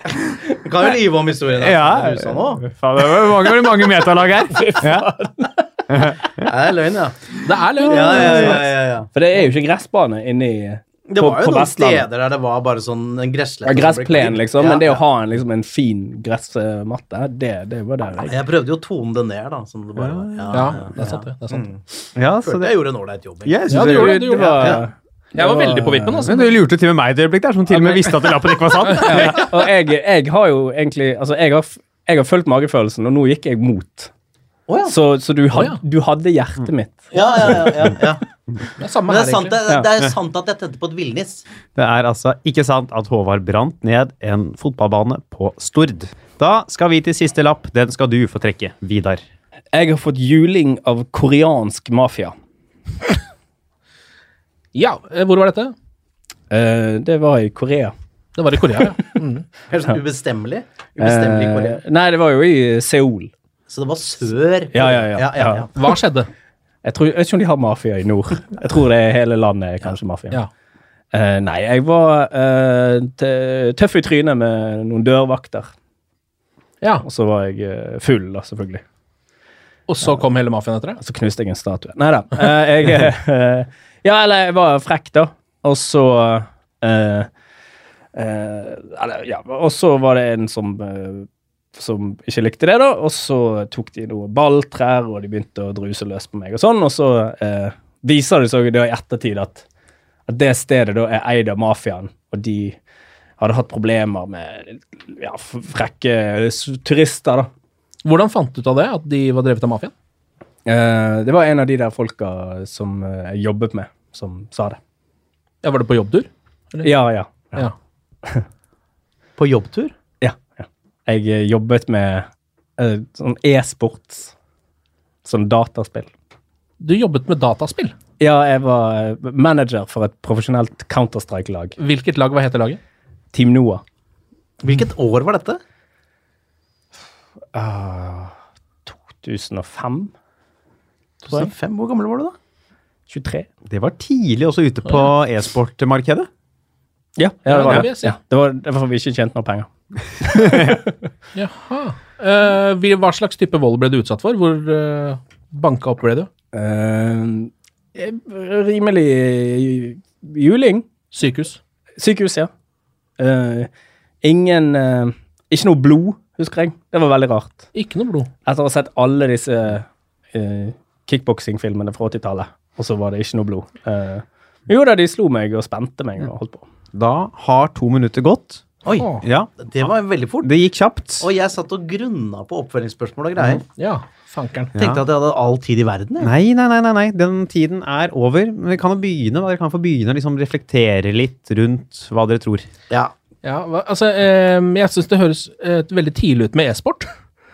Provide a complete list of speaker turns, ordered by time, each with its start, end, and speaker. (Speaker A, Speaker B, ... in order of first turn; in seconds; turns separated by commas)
Speaker A: 0.5-2.6, Speaker B: 1.6-5.1, Speaker C: 4.5-5.6, Speaker B: 5.9-6.5, Speaker A: 6.4-9.1, Speaker D: 7.4-8.6, Speaker B: 7.9-8.6, Speaker C: 8.2-8.6, Speaker C: 9.1-12.1, Speaker A: 11.1-15.0, Speaker C: 13.6-18.4, Speaker A: 18.2-24.9, Speaker B: 20.0-20.8, Speaker D: 20.5-21.7, Speaker B: 22.1-22.8, Speaker B: 23.4-24.3, Speaker D: 23.7-24.8, Speaker C: 23.7-26.3, Speaker D: 25.3-26.5, Speaker B: 26.2-29.4, Speaker D: 28.8-29.5, Speaker C: 29.0-34.1, Speaker A: 34.7-35.0, Speaker C: 34.8-38.0, Speaker D: 35.5-35.8, Speaker A: 37.1-38.2, Speaker D: 38.8-39.5, Speaker A: 39.1-41.4, Speaker B: 41.7-49.2, Speaker C: 49.7-52.3, Speaker D: 54.7-55.7, Speaker C: 56.5-57.9, Speaker D: 58.4-59.5, Speaker C: 58.7-59.1, Speaker A: 59.7-61.8, Speaker C: 61.0-63.3, Speaker A: 63.7-65.7, Speaker C: 64.7-65.7, Speaker D: 65.7-66.3, Speaker C: 66.8-70.4, Speaker C: 71.1-75.7, Speaker C: 77.0-78.8, Speaker D: 79.9-81.0, Speaker C: 81.0-87.3, Speaker C: 88.1-99.6, Speaker C: 100.3-102.8, Speaker C: 103.4-107.5, Speaker D: 108.0-109.9, Speaker C: 110.7-114.8, Speaker D: 115.6-116.9, Speaker C: 116.8-117.5, Speaker A: 119.4-119.9, Speaker C: 120.2-122.3, Speaker C: 122.8-124.3, Speaker C: 125.2-126.1, Speaker D: 126.8-127.9, Speaker C: 128.2-131.8, Speaker D: 131.8-132.8, Speaker C: 133.3-133.8, Speaker A: 134.6-135.6, Speaker C: 137.5-138.3, Speaker C: 138.9-140.1, Speaker A: 141.2-142.3, Speaker C: 143.1-143.5, Speaker B: 143.6-146.3, Speaker C: 147.2-149.7, Speaker D: 147.5-148.1, Speaker C: 150.2-151.0, Speaker D: 151.3-156.3, Speaker C: 156.5-160.9, Speaker D: 161.1-161.6, Speaker C: 162.0-162.5, Speaker C: 163.2-163.7, Speaker C: 164.2-167.7, Speaker D: 167.7-168.3, Speaker C: 168.4-176.7, Speaker B: 176.9-179.5, Speaker A: 178.8-180.5, Speaker D: 179.0-179.2, Speaker B: 180.4-181.3, Speaker A: 181.2-183.6, Speaker D: 183.8-184.7, Speaker B: 184.7-185.0, Speaker A: 184.8-186.3, Speaker B: 186.2-192.7, Speaker D: 193.4-197.1